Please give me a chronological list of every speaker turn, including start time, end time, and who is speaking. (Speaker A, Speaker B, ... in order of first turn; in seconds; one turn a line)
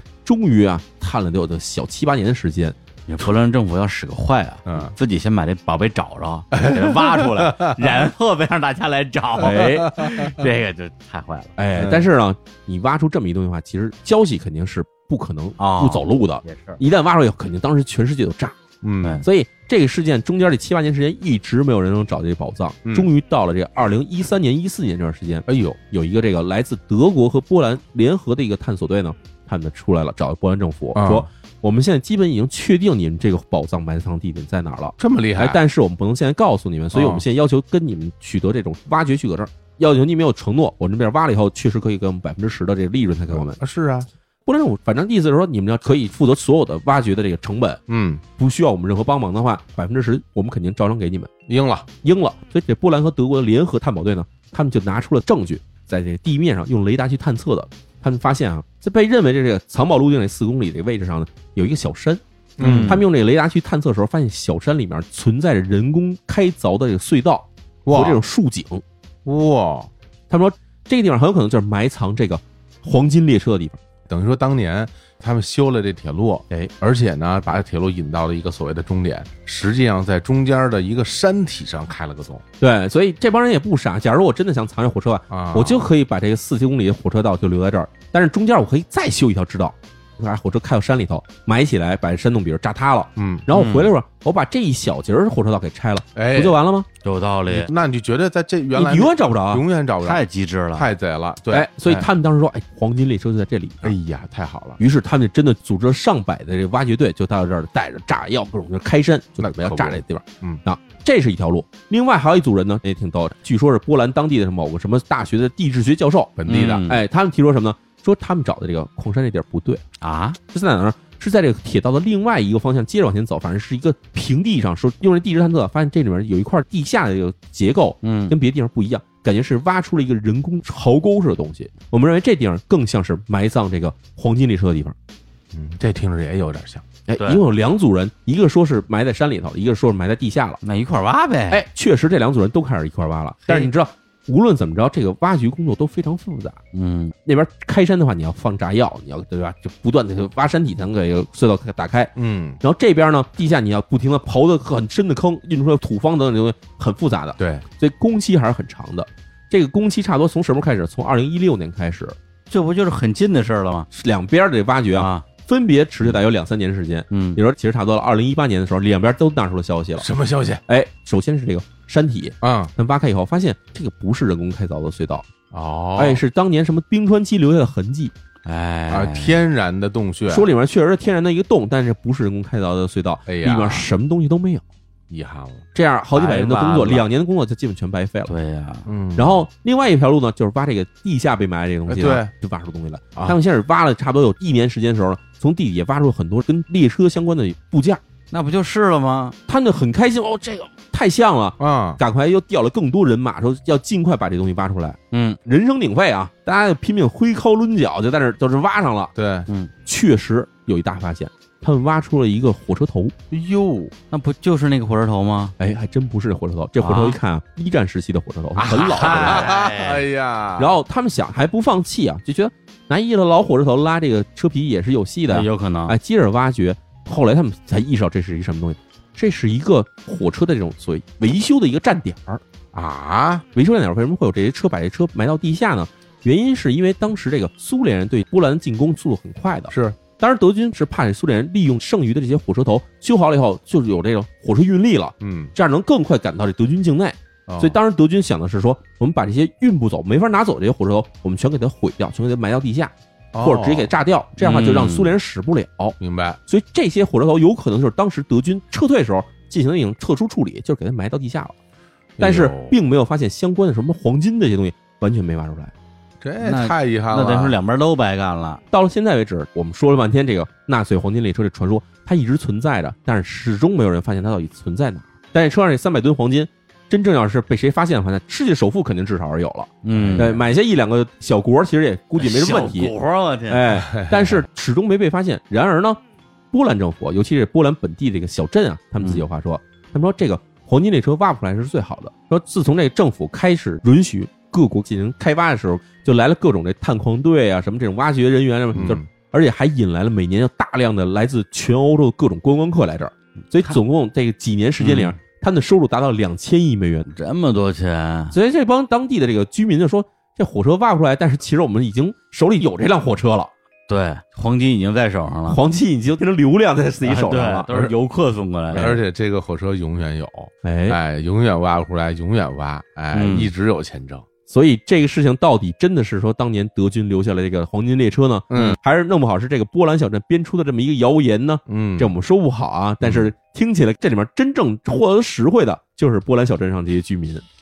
Speaker A: 0.2-2.8
Speaker B: 3.1-11.5
Speaker C: 4.7-4.9
Speaker C: 6.5-8.0
Speaker A: 9.4-9.9
Speaker C: 9.4-10.3
Speaker A: 11.6-18.6
Speaker C: 11.8-12.0
Speaker B: 15.6-16.8
Speaker C: 18.8-19.2
Speaker A: 19.2-43.6
Speaker C: 25.5-25.8
Speaker C: 30.9-31.3
Speaker C: 35.0-35.6
Speaker C: 36.9-37.2
Speaker C: 43.3-44.1
Speaker A: 44.5-47.8
Speaker C: 47.9-48.2
Speaker A: 48.4-51.3
Speaker C: 51.5-51.9
Speaker A: 52.0-68.8
Speaker C: 62.6-63.0
Speaker B: 62.6-63.0
Speaker C: 67.8-68.2
Speaker C: 69.2-69.9
Speaker A: 70.3-73.8
Speaker C: 74.1-82.4
Speaker A: 82.6-96.9
Speaker C: 85.3-85.9
Speaker C: 93.2-93.5
Speaker B: 93.5-93.9
Speaker C: 96.1-96.6
Speaker B: 97.0-97.7
Speaker C: 97.5-100.2
Speaker A: 98.7-99.6
Speaker B: 100.0-100.9
Speaker C: 100.7-102.1
Speaker A: 101.5-103.9
Speaker C: 103.8-104.8
Speaker A: 104.8-119.8
Speaker C: 109.4-110.6
Speaker C: 116.4-116.9
Speaker B: 116.5-117.0
Speaker B: 120.0-120.4
Speaker A: 120.5-134.9
Speaker B: 128.0-128.3
Speaker C: 135.5-136.8
Speaker A: 137.1-140.6
Speaker B: 140.6-141.6
Speaker A: 141.5-146.6
Speaker B: 146.7-147.1
Speaker A: 147.2-162.2
Speaker C: 152.2-152.6
Speaker C: 157.4-157.6
Speaker B: 162.5-163.9
Speaker A: 163.9-170.1
Speaker B: 165.0-165.2
Speaker B: 167.1-167.4
Speaker C: 170.0-170.6
Speaker A: 170.7-175.2
Speaker C: 172.4-172.7
Speaker C: 175.5-176.2
Speaker A: 176.0-178.1
Speaker B: 178.4-179.4
Speaker C: 178.9-180.5
Speaker A: 180.3-184.6
Speaker C: 183.3-183.9
Speaker C: 185.1-185.6
Speaker A: 185.7-188.3
Speaker B: 186.1-187.1
Speaker B: 188.3-188.8
Speaker C: 188.8-189.4
Speaker A: 189.2-198.0
Speaker C: 191.9-192.3
Speaker B: 198.3-199.3
Speaker A: 199.5-209.1
Speaker C: 201.6-202.0
Speaker B: 205.1-205.4
Speaker C: 209.1-209.5
Speaker A: 209.8-213.1
Speaker C: 213.3-213.9
Speaker B: 214.1-215.5
Speaker A: 215.6-219.5
Speaker B: 216.8-217.2
Speaker C: 218.6-220.7
Speaker B: 218.6-220.0
Speaker A: 220.6-232.4
Speaker B: 225.3-225.9
Speaker C: 232.7-233.4
Speaker A: 233.5-256.0
Speaker C: 239.7-240.0
Speaker C: 245.2-245.5
Speaker C: 247.5-247.8
Speaker C: 253.3-253.9
Speaker B: 254.4-255.1
Speaker C: 256.0-256.4
Speaker A: 256.5-261.6
Speaker C: 262.2-262.7
Speaker A: 262.2-265.7
Speaker C: 266.2-267.6
Speaker B: 266.4-268.6
Speaker A: 268.7-282.9
Speaker B: 279.8-280.4
Speaker C: 279.9-280.3
Speaker B: 282.2-283.6
Speaker A: 283.5-286.0
Speaker C: 283.8-284.4
Speaker A: 286.5-307.1
Speaker C: 298.7-299.1
Speaker B: 304.8-305.1
Speaker B: 307.1-308.3
Speaker A: 308.3-313.5
Speaker B: 313.9-315.6
Speaker A: 315.5-317.7
Speaker B: 317.0-319.0
Speaker A: 318.7-319.0
Speaker C: 318.7-324.2
Speaker A: 320.6-321.0
Speaker B: 323.1-323.5
Speaker A: 324.5-337.4
Speaker C: 328.5-328.8
Speaker C: 331.7-332.1
Speaker C: 333.0-333.3